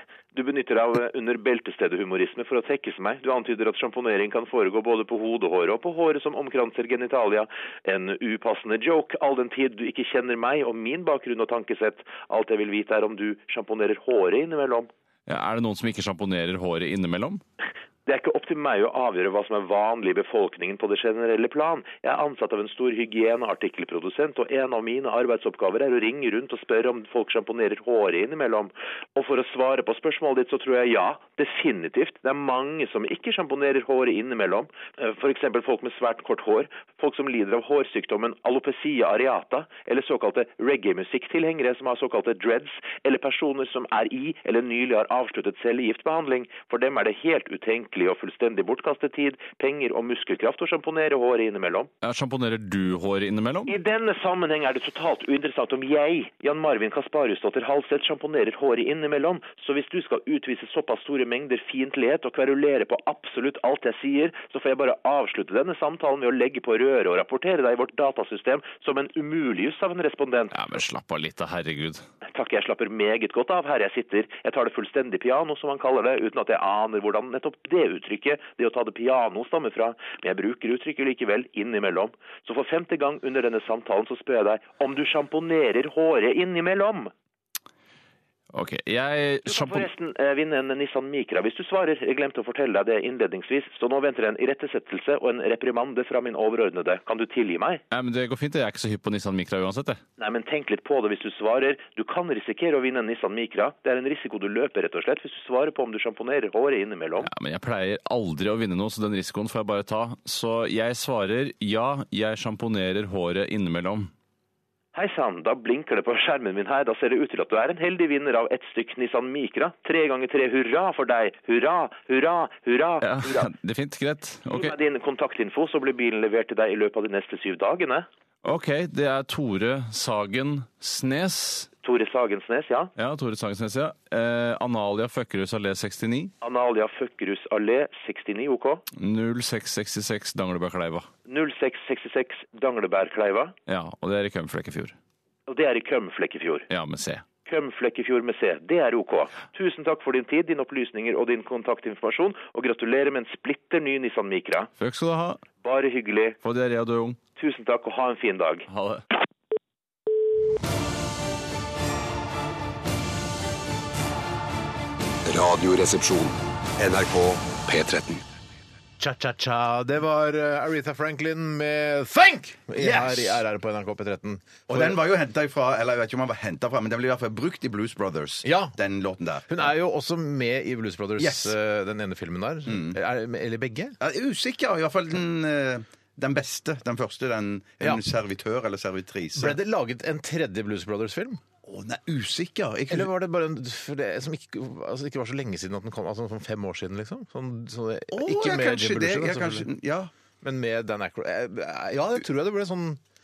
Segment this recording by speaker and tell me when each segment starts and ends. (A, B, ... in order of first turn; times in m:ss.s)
0:00.3-0:14.9 A
0:15.3-0:17.4 B
0:18.1-0:51.9 A
0:52.0-0:53.8 B
0:53.7-1:10.5 A
1:10.5-1:12.0 B
1:12.4-1:27.1 A
1:28.5-1:29.9 B
1:29.5-1:37.8 A
1:37.9-1:40.0 B
1:40.2-1:47.3 A
1:47.2-1:54.1 B
1:54.9-2:03.5 A
2:03.0-2:04.8 B
2:04.5-2:08.1 A
2:08.4-2:11.7 B
2:11.8-2:12.9 A
2:13.0-2:16.3 B
2:16.4-2:18.8 A
2:18.9-2:21.1 B
2:21.3-2:23.5 A
2:23.7-2:25.0 B
2:25.5-2:26.7 A
2:26.7-2:27.2 B
2:27.5-2:34.7 A
2:34.8-2:35.4 B
2:35.6-2:36.4 A
2:36.4-2:37.2 B
2:37.4-2:38.7 A
2:38.7-2:39.0 B
2:45.3-2:48.2 C
2:49.0-2:55.0 D
2:52.8-2:53.4 E
2:54.7-2:59.6 E
2:58.4-2:58.7 D
2:59.5-3:04.0 D
3:01.2-3:01.5 E
3:02.7-3:03.0 E
3:04.0-3:09.6 E
3:09.4-3:11.4 D
3:11.7-3:13.1 E
3:12.9-3:19.7 D
3:18.1-3:20.1 E
3:20.4-3:23.0 D